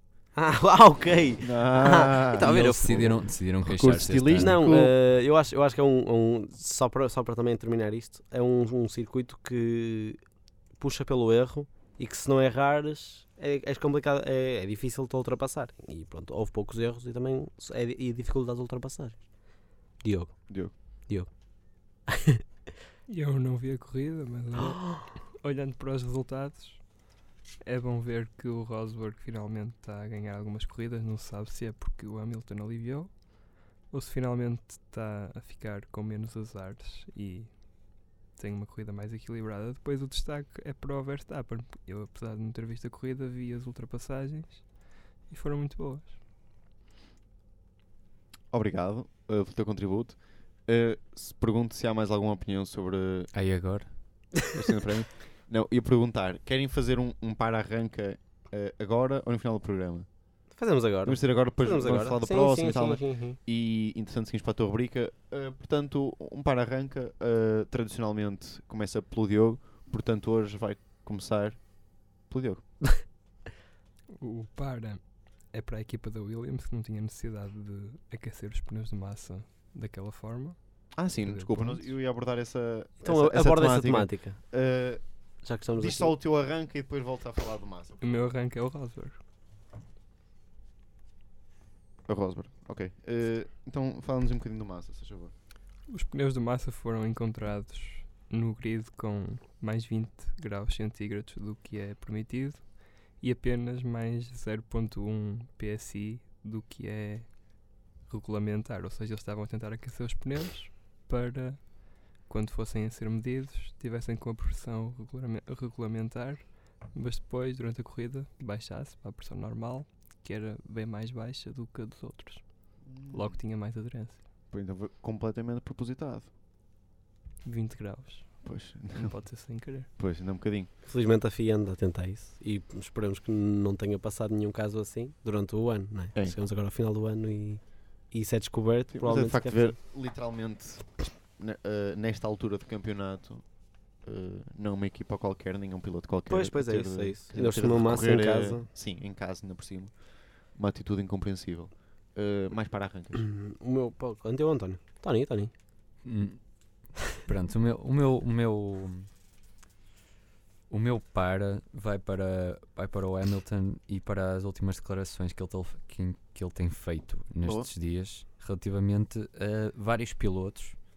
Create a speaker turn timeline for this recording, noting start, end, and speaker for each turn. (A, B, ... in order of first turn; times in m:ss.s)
0:00.3-0:03.2 A
0:01.4-0:02.5 B
0:02.4-0:04.6 C
0:03.6-0:04.9 B
0:04.4-0:10.2 A
0:10.8-0:22.4 A
0:20.5-0:20.7 B
0:23.1-0:27.0 D
0:24.6-0:24.9 A
0:27.6-0:46.2 D
0:48.5-0:53.3 B
0:53.3-0:54.4 C
0:54.5-1:00.3 B
1:00.5-1:03.4 A
1:01.0-1:13.0 B
1:14.2-1:22.0 D
1:20.9-1:28.0 B
1:23.0-1:24.4 A
1:25.4-1:26.1 A
1:28.0-1:29.2 D
1:32.0-1:35.3 B
1:35.9-2:04.2 D
2:02.8-2:03.4 B
2:04.5-2:06.3 B
2:07.4-2:09.9 D
2:08.4-2:10.7 B
2:10.8-2:19.8 A
2:18.9-2:33.2 B
2:26.3-2:28.7 A
2:33.1-2:35.5 A
2:36.0-2:39.1 C
2:40.7-2:50.8 C
2:47.4-2:47.7 B